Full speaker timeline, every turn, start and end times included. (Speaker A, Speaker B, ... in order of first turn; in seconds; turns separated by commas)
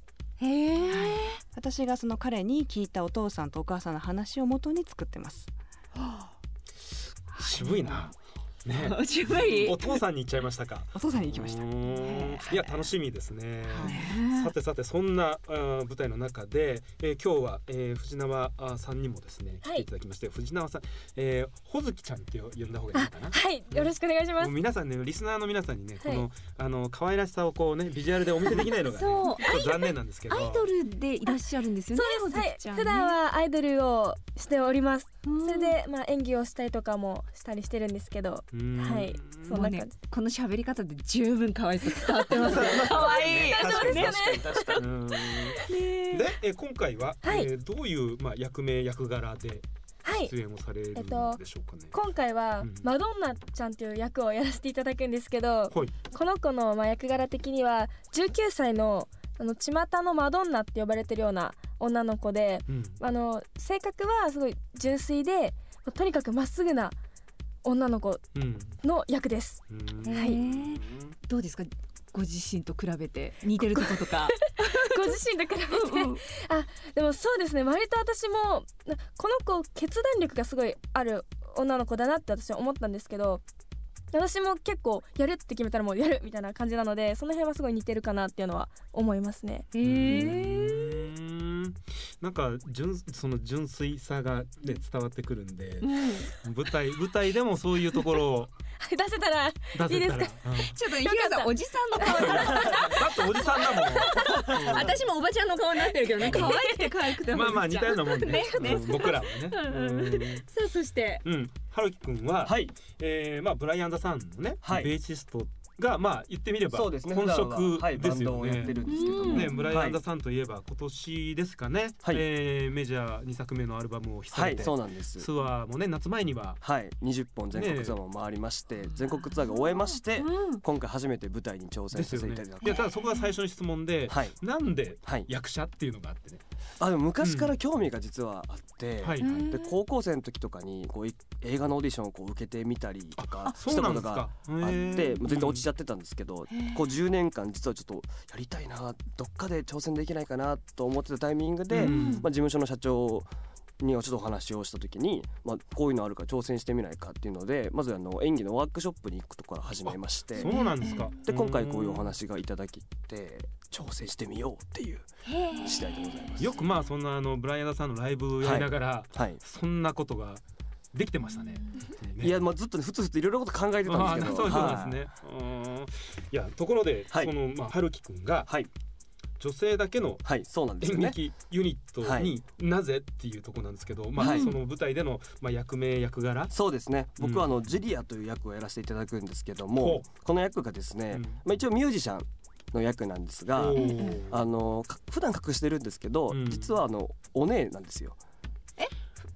Speaker A: 0.4-1.4, Speaker B: 0.9-5.5, Speaker A: 6.0-6.3, Speaker C: 7.4-8.1, Speaker B: 7.4-7.9, Speaker C: 8.6-30.6, Speaker A: 8.7-9.9, Speaker B: 10.9-11.7, Speaker A: 11.9-12.4, Speaker B: 12.5-12.8, Speaker B: 13.6-14.1, Speaker A: 13.8-14.5, Speaker D: 22.9-24.6, Speaker D: 26.0-26.2, Speaker A: 28.5-29.7, Speaker D: 29.6-29.9, Speaker A: 30.3-33.2, Speaker D: 31.9-39.9, Speaker A: 35.2-35.8, Speaker C: 38.5-39.5, Speaker A: 39.5-44.8, Speaker C: 42.3-44.1, Speaker D: 42.9-44.8, Speaker E: 43.5-44.8, Speaker C: 44.7-49.6, Speaker D: 45.4-45.7, Speaker A: 45.7-46.3, Speaker D: 47.2-47.5, Speaker D: 50.0-50.3, Speaker C: 50.1-52.0, Speaker D: 50.9-51.4, Speaker D: 51.9-67.0, Speaker C: 52.6-52.9, Speaker C: 55.7-56.0, Speaker C: 62.7-63.0, Speaker D: 67.6-68.3, Speaker C: 68.3-68.8, Speaker D: 68.8-70.4, Speaker C: 69.7-71.2, Speaker A: 70.0-75.2, Speaker D: 73.6-83.4, Speaker A: 75.7-76.2, Speaker D: 84.1-89.7, Speaker A: 89.7-91.0, Speaker C: 89.8-95.9, Speaker A: 95.8-96.3, Speaker C: 96.4-98.5, Speaker D: 98.8-104.4, Speaker C: 99.7-100.8, Speaker A: 100.6-102.8, Speaker C: 102.1-105.0, Speaker A: 104.1-111.2, Speaker D: 106.2-106.9, Speaker C: 107.3-110.4, Speaker D: 108.3-109.1, Speaker C: 111.2-126.6, Speaker E: 112.4-112.8, Speaker E: 114.6-114.9, Speaker E: 116.7-120.0, Speaker A: 118.8-119.7, Speaker E: 124.3-125.3, Speaker E: 126.6-132.8, Speaker C: 127.5-128.0, Speaker A: 129.2-130.6, Speaker C: 131.9-136.4, Speaker A: 132.6-133.3, Speaker E: 134.1-134.4, Speaker E: 135.0-135.3, Speaker E: 136.8-160.6, Speaker C: 137.2-137.5, Speaker C: 139.0-139.3, Speaker A: 139.2-139.8, Speaker C: 143.2-145.7, Speaker A: 144.8-145.1, Speaker A: 146.5-146.8, Speaker C: 151.7-152.2, Speaker A: 151.8-152.2, Speaker C: 159.8-162.1, Speaker A: 160.4-161.1, Speaker E: 161.2-165.1, Speaker A: 165.2-166.5, Speaker E: 165.6-166.6, Speaker C: 166.4-170.4, Speaker E: 168.4-169.4, Speaker C: 170.9-172.4, Speaker E: 172.2-175.1, Speaker C: 173.8-178.6, Speaker C: 179.4-186.5, Speaker E: 180.2-181.2, Speaker E: 182.0-182.3, Speaker E: 184.2-184.5, Speaker A: 184.2-184.6, Speaker E: 186.5-198.2, Speaker C: 187.2-187.5, Speaker C: 189.7-190.1, Speaker C: 191.1-191.4, Speaker C: 193.5-194.4, Speaker A: 193.8-194.2, Speaker C: 196.3-196.8